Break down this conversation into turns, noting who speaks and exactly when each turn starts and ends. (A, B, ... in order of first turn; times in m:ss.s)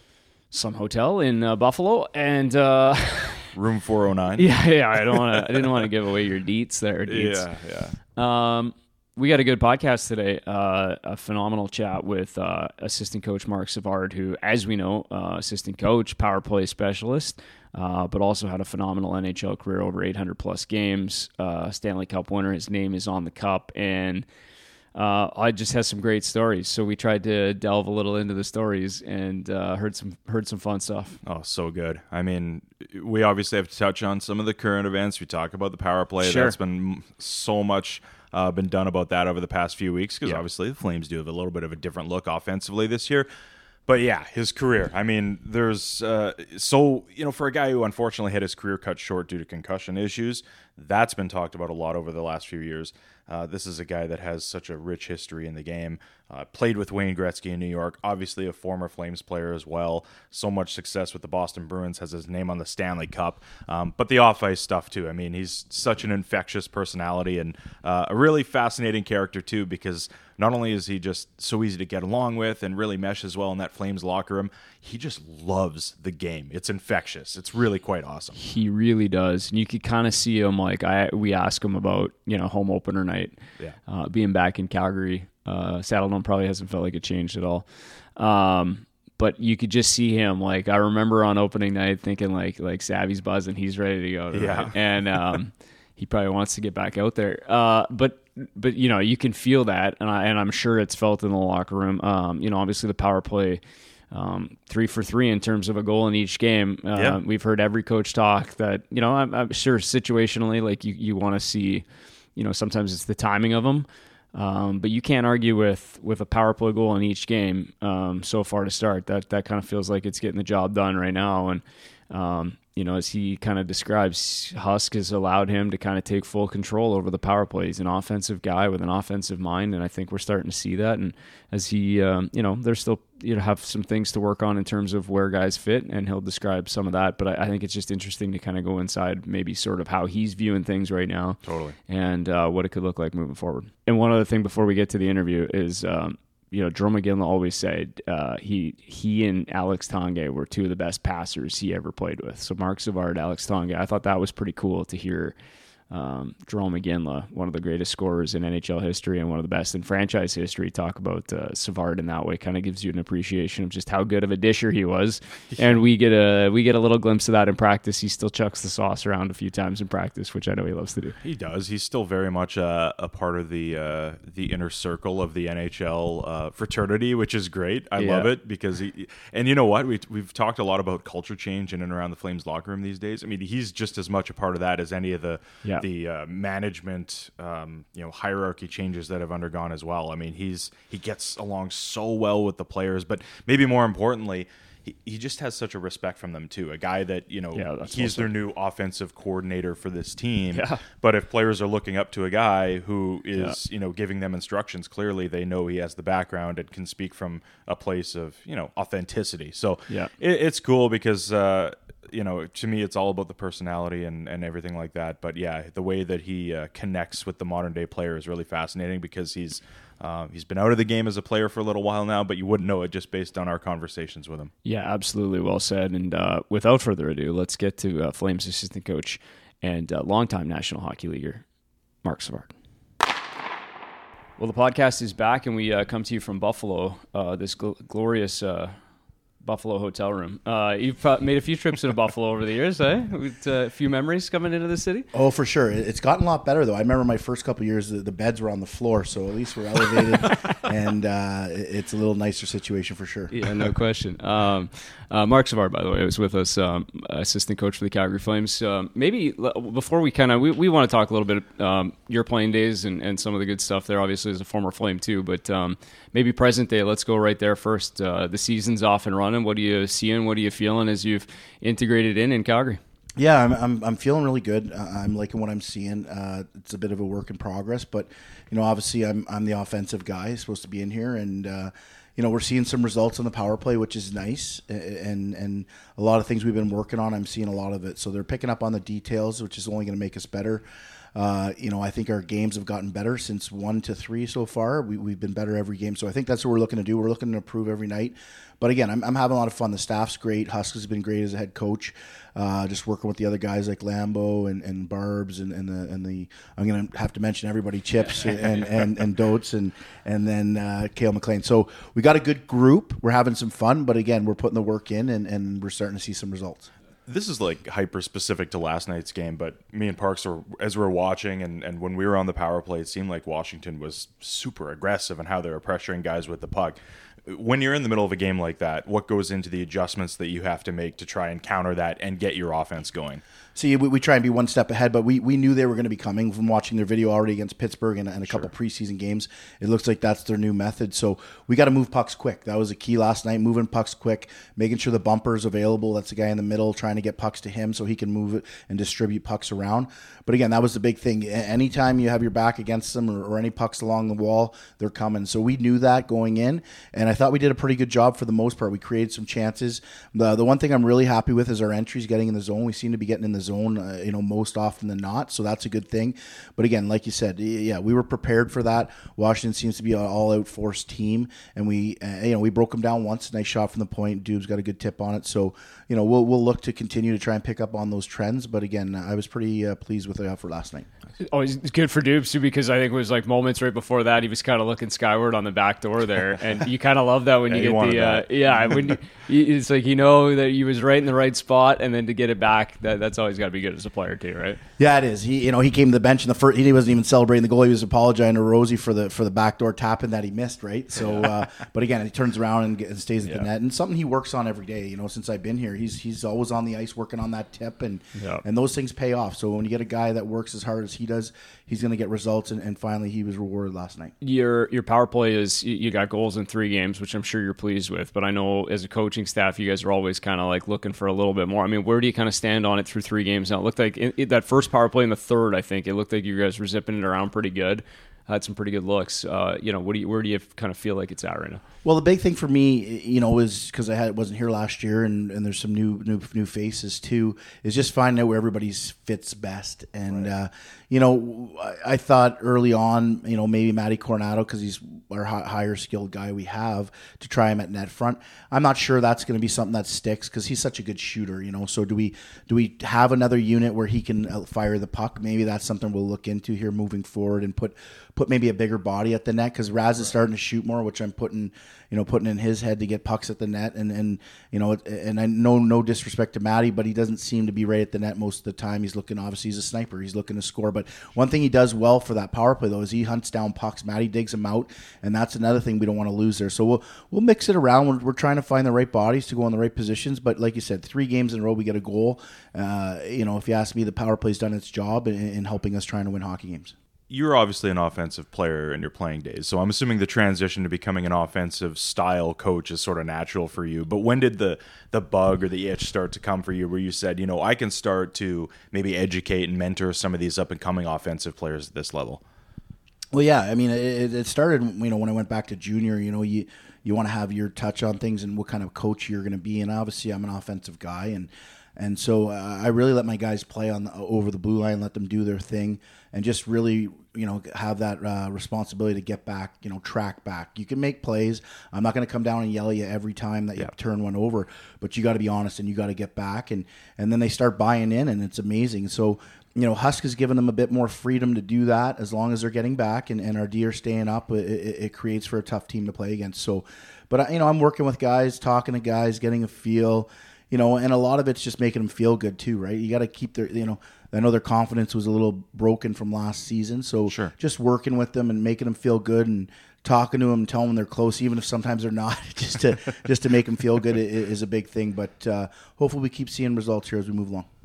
0:00.5-0:03.5 A
0:03.5-0:05.3 B
0:04.4-0:07.5 A
0:07.0-0:08.0 B
0:08.2-0:24.2 A
0:24.9-0:31.2 A
0:31.2-0:43.3 B
0:36.2-0:36.5 A
0:43.9-1:18.4 B
1:18.4-1:51.8 A
1:34.3-1:35.3 B
1:52.4-2:35.4 A
2:21.4-2:21.8 B
2:35.9-2:51.2 A
2:51.2-3:44.5 B
2:58.0-2:58.3 A
3:17.5-3:18.3 A
3:20.5-3:20.8 A
3:44.6-3:51.4 A
3:52.0-3:52.5 A
3:54.4-3:58.8 A
3:59.4-4:05.1 A
4:05.1-4:13.3 C
4:13.3-4:32.8 A
4:33.2-5:16.7 C
5:17.1-5:33.2 B
5:33.5-6:20.9 C
6:21.2-6:34.6 A
6:27.5-6:29.0 B
6:34.8-6:54.1 C
6:41.0-6:41.2 A
6:48.2-6:48.4 A
6:54.2-7:11.6 A
7:11.8-8:06.7 C
8:07.1-8:22.2 B
8:23.1-9:17.5 C
9:07.1-9:07.3 B